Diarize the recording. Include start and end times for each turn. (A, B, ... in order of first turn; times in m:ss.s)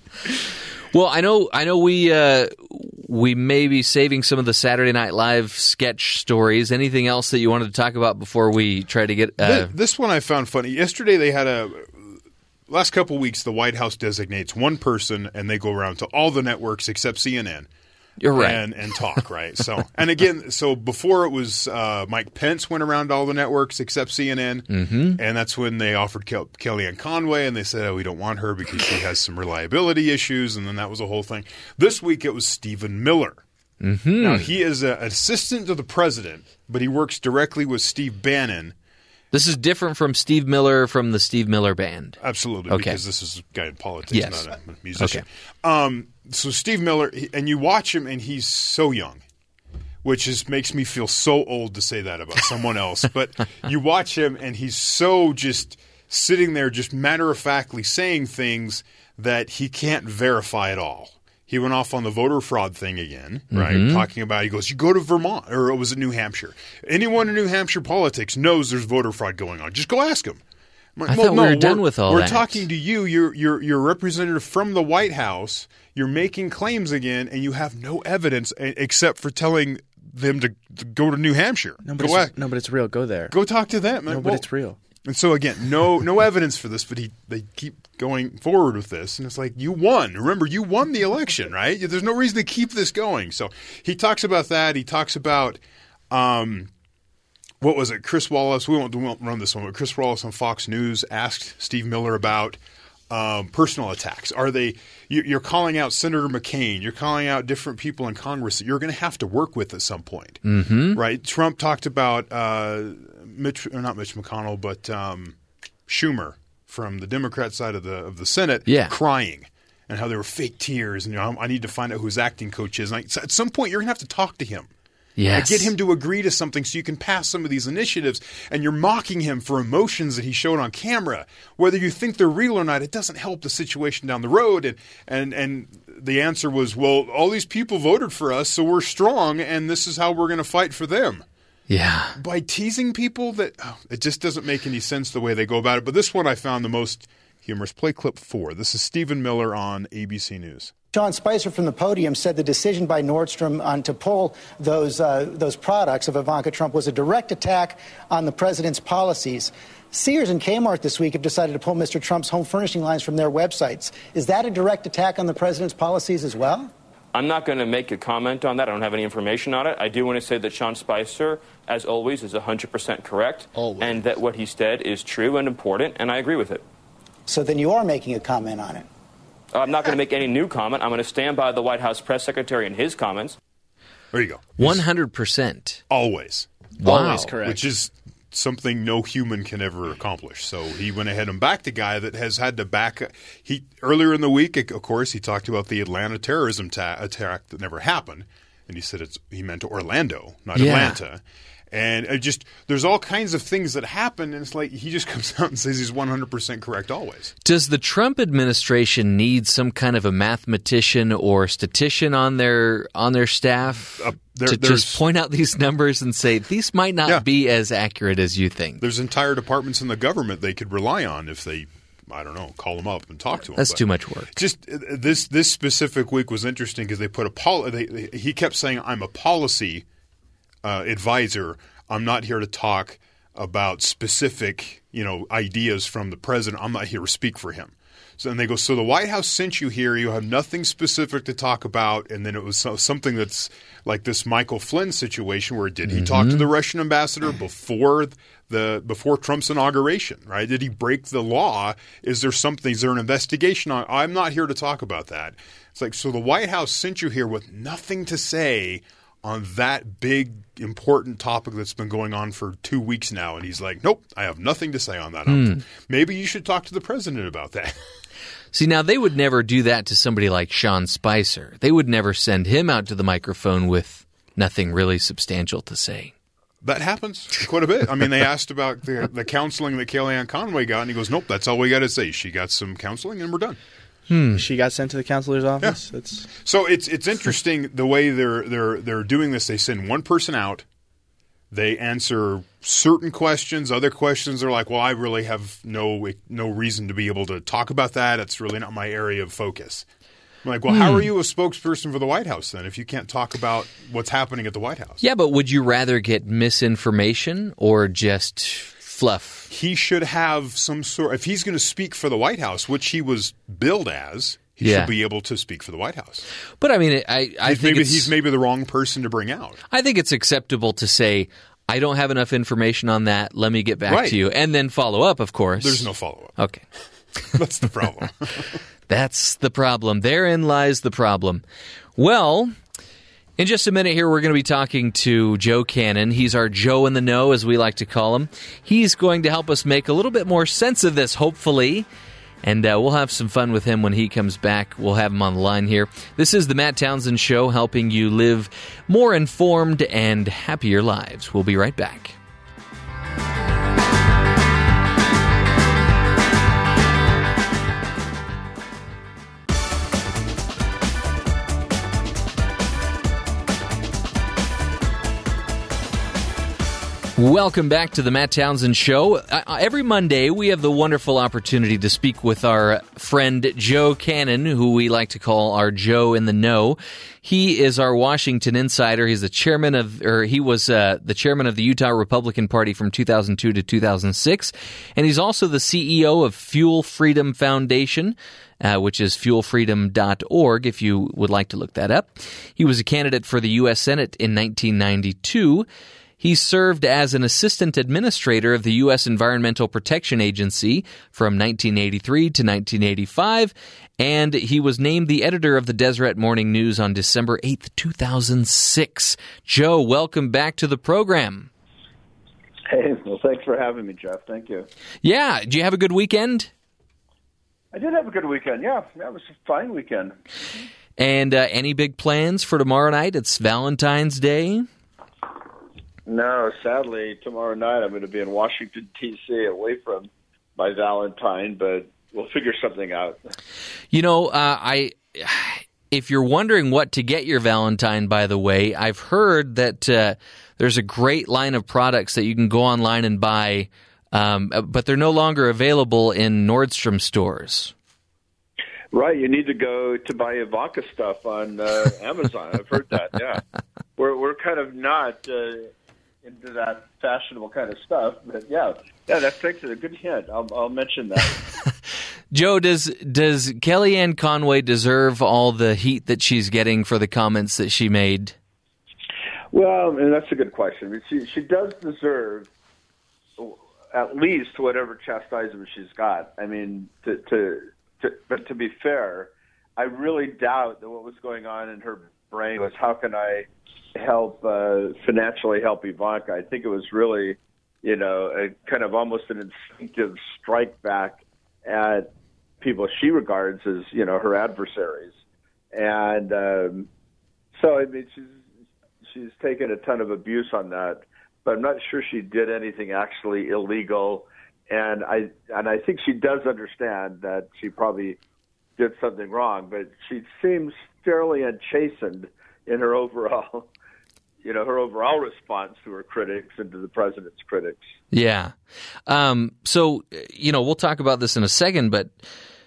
0:00.9-0:09.7 A
0:09.4-0:17.7 B
0:18.2-0:18.6 A
0:18.3-0:33.4 B
0:24.7-0:25.2 A
0:33.8-0:34.5 A
0:34.2-0:38.7 B
0:39.3-0:43.0 A
0:42.2-0:49.2 B
0:44.1-0:44.4 A
0:45.0-0:45.2 A
0:50.0-1:10.4 B
1:03.5-1:04.1 A
1:11.0-1:22.3 B
1:11.0-1:12.6 A
1:21.8-1:23.3 C
1:23.3-1:24.5 B
1:24.1-1:24.8 C
1:25.0-1:35.6 B
1:36.1-1:36.7 B
1:37.6-1:50.4 B
1:50.4-1:51.0 A
1:50.9-2:04.7 B
1:58.7-1:58.9 A
2:05.2-2:05.7 A
2:05.3-2:21.2 B
2:21.7-2:22.2 A
2:22.1-2:30.7 B
2:30.9-2:46.7 D
2:47.1-2:56.6 E
2:53.5-2:54.0 C
2:57.3-2:58.8 D
2:59.5-3:03.4 E
3:04.1-3:04.8 B
3:04.6-3:05.8 A
3:05.9-3:06.5 B
3:06.8-3:07.4 A
3:06.8-3:07.6 C
3:07.4-3:27.3 B
3:20.5-3:21.0 A
3:27.4-3:38.8 A
3:34.0-3:35.0 B
3:38.8-3:49.8 B
3:43.6-3:44.4 A
3:50.6-4:27.8 B
4:05.8-4:06.5 A
4:25.3-4:25.6 A
4:28.5-4:36.1 A
4:36.6-4:43.6 B
4:44.1-4:44.4 A
4:44.3-4:46.3 C
4:45.6-4:50.6 B
4:51.5-4:59.9 B
5:00.4-5:05.0 B
5:00.7-5:01.1 A
5:05.0-5:09.5 A
5:09.5-5:16.2 B
5:14.6-5:14.9 A
5:16.6-5:18.1 A
5:17.4-5:19.6 B
5:19.7-5:26.6 A
5:23.9-5:24.2 B
5:25.6-5:26.4 B
5:27.3-5:28.6 B
5:28.9-5:31.4 A
5:32.0-5:32.5 A
5:33.4-5:41.9 A
5:42.4-5:52.2 A
6:07.2-6:35.6 A
6:36.2-6:51.5 A
6:52.7-6:54.7 F
6:55.0-6:56.5 A
6:57.7-7:00.1 F
7:01.0-7:04.7 A
7:06.1-7:13.2 F
7:13.9-7:27.7 A
7:28.9-7:33.4 F
7:34.0-7:35.7 F
7:36.2-7:41.4 F
7:42.3-7:48.4 A
7:49.5-7:52.5 F
7:53.4-8:12.1 F
8:12.6-8:15.1 F
8:15.7-8:16.9 F
8:17.5-8:18.4 F
8:19.0-8:28.2 F
8:28.8-8:33.7 F
8:34.4-8:37.8 F
8:38.1-8:38.5 A
8:39.1-8:42.2 A